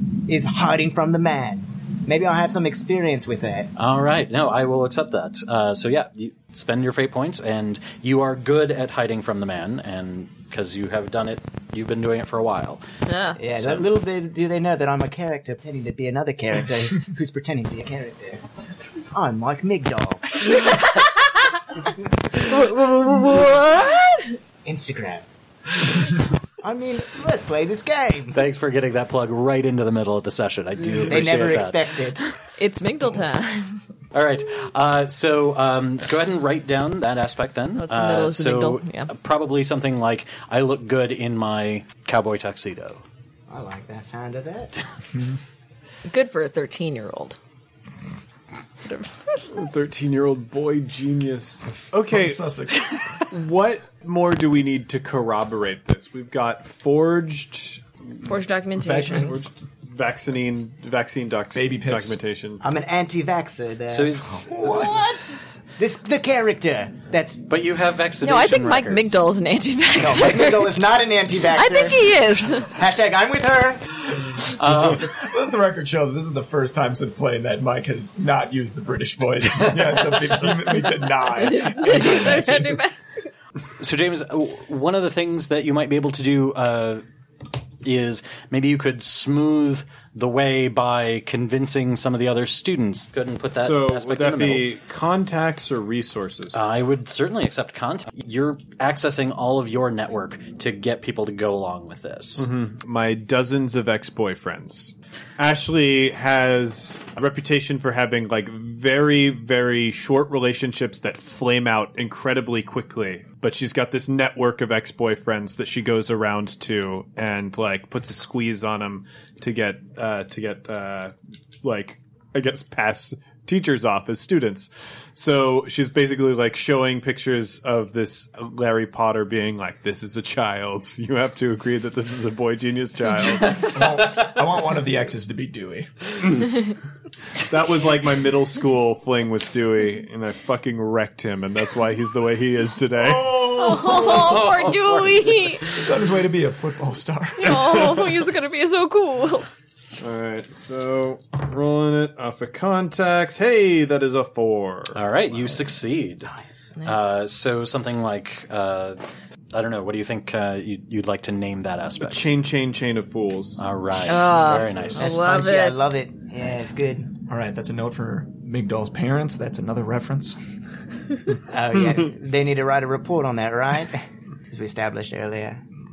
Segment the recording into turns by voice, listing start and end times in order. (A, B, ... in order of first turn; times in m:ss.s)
0:00.3-0:03.7 A
0:03.8-0:12.8 B
0:13.1-0:13.4 C
0:13.4-0:18.4 A
0:13.6-0:13.9 B
0:19.1-0:20.4 A
0:20.6-0:21.2 C
0:22.4-0:24.4 C
0:24.6-0:25.3 A
0:26.6-0:28.4 A
0:28.3-0:32.2 B
0:31.0-0:32.2 A
0:32.6-0:33.8 C
0:34.1-0:43.0 B
0:37.8-0:39.1 C
0:43.5-0:44.7 A
0:46.1-0:47.4 C
0:48.9-0:49.4 C
0:49.5-0:52.4 D
0:52.1-0:53.0 E
0:53.3-0:57.8 D
0:58.3-0:59.4 C
0:58.9-0:59.3 E
0:59.0-1:02.6 D
1:01.5-1:02.2 E
1:02.6-1:04.2 A
1:03.9-1:04.4 B
1:04.3-1:05.1 E
1:04.6-1:05.3 C
1:05.8-1:07.4 A
1:07.5-1:09.2 B
1:08.2-1:10.7 C
1:10.0-1:14.0 A
1:11.5-1:12.7 C
1:14.5-1:15.2 B
1:14.6-1:22.6 E
1:21.4-1:23.0 C
1:23.8-1:27.0 B
1:27.8-1:34.7 B
1:33.6-1:36.6 D
1:36.5-1:42.5 B
1:42.4-2:13.7 D
2:13.5-2:15.9 E
2:17.4-2:23.5 D
2:23.0-2:24.5 E
2:23.5-2:25.8 C
2:24.0-2:25.6 B
2:25.7-2:27.8 E
2:27.4-2:29.5 C
2:27.4-2:28.2 D
2:30.0-2:35.0 D
2:34.9-2:36.3 B
2:36.8-2:39.0 B
2:39.5-2:42.3 B
2:42.0-2:43.6 D
2:43.6-2:45.3 B
2:44.1-2:45.8 C
2:44.4-2:47.2 A
2:47.2-2:50.4 E
2:51.5-2:55.6 A